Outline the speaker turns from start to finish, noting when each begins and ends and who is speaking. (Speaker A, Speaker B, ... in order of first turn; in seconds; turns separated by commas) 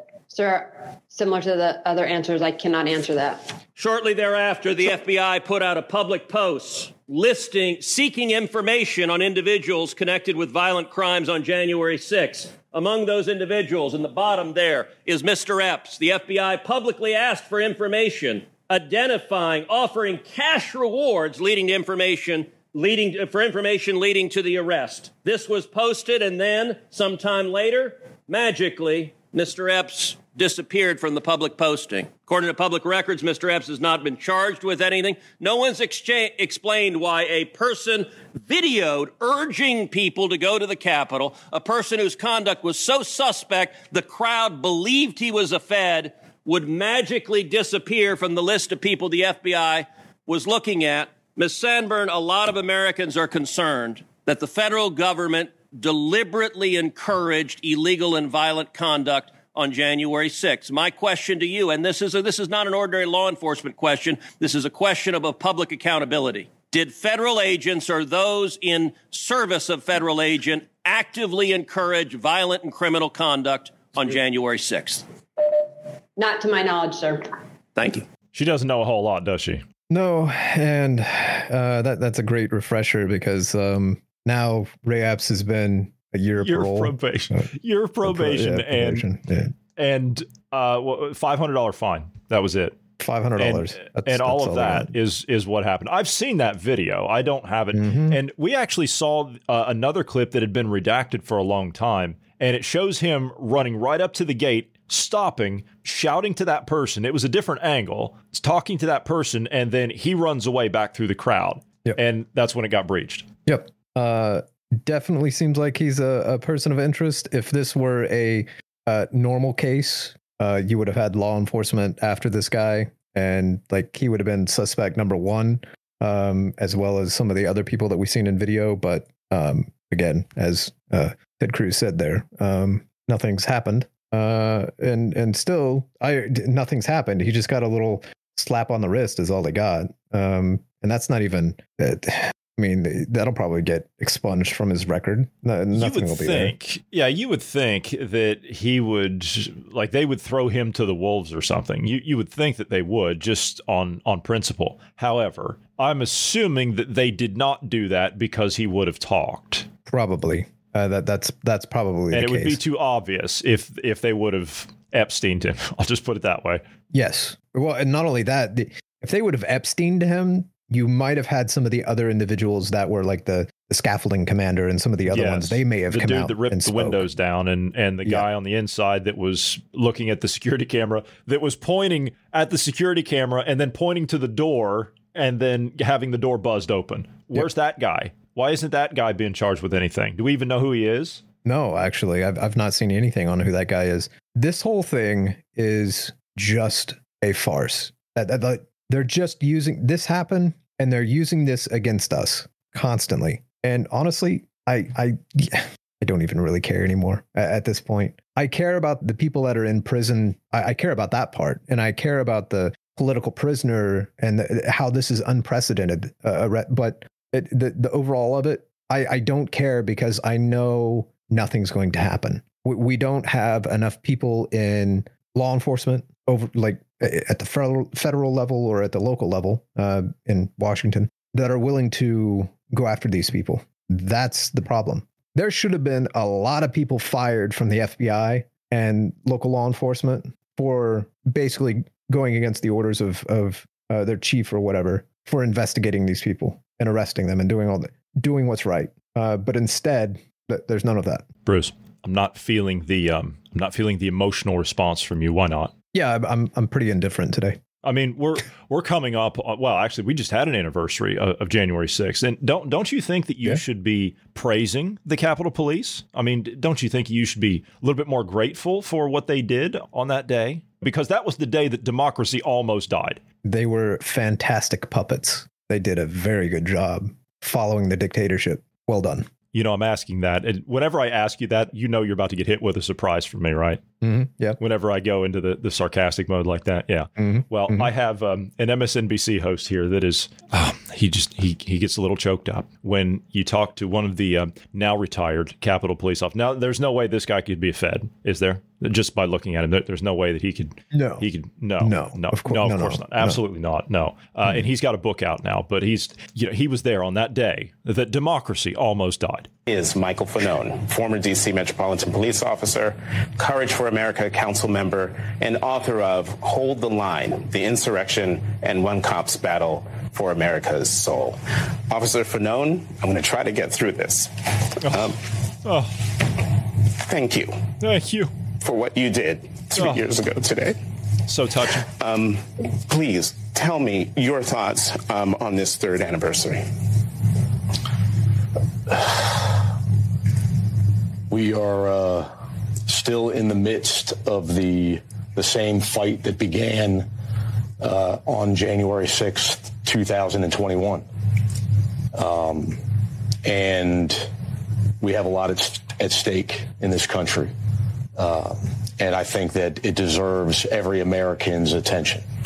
Speaker A: 0.3-3.6, Speaker B: 3.8-75.0, Speaker A: 76.2-77.3, Speaker B: 77.8-78.0, Speaker C: 78.3-79.6, Speaker D: 79.9-87.5, Speaker C: 86.4-89.1, Speaker D: 88.0-89.5, Speaker C: 89.8-92.8, Speaker D: 93.0-94.9, Speaker C: 93.4-113.3, Speaker D: 97.7-98.2, Speaker D: 113.5-146.5, Speaker C: 145.7-159.7, Speaker D: 159.9-162.6, Speaker C: 162.1-166.6, Speaker D: 166.9-177.1, Speaker C: 175.1-191.2, Speaker D: 191.4-251.3, Speaker C: 251.4-255.7, Speaker D: 255.9-257.6, Speaker C: 257.8-273.2, Speaker D: 273.4-279.3, Speaker C: 279.5-283.8, Speaker D: 284.0-284.6, Speaker C: 284.6-309.5, Speaker D: 287.2-287.9, Speaker D: 300.9-301.3, Speaker D: 301.8-303.4, Speaker E: 309.7-325.2, Speaker C: 325.6-325.9, Speaker E: 327.1-327.6, Speaker C: 327.8-328.3, Speaker E: 328.6-330.8, Speaker C: 329.8-330.0, Speaker C: 331.3-331.9, Speaker E: 331.8-336.6, Speaker F: 338.9-339.6, Speaker F: 341.3-342.3, Speaker F: 342.9-347.1, Speaker F: 347.8-351.1, Speaker F: 352.1-352.8, Speaker F: 353.4-354.3, Speaker F: 355.0-357.5, Speaker F: 358.1-362.2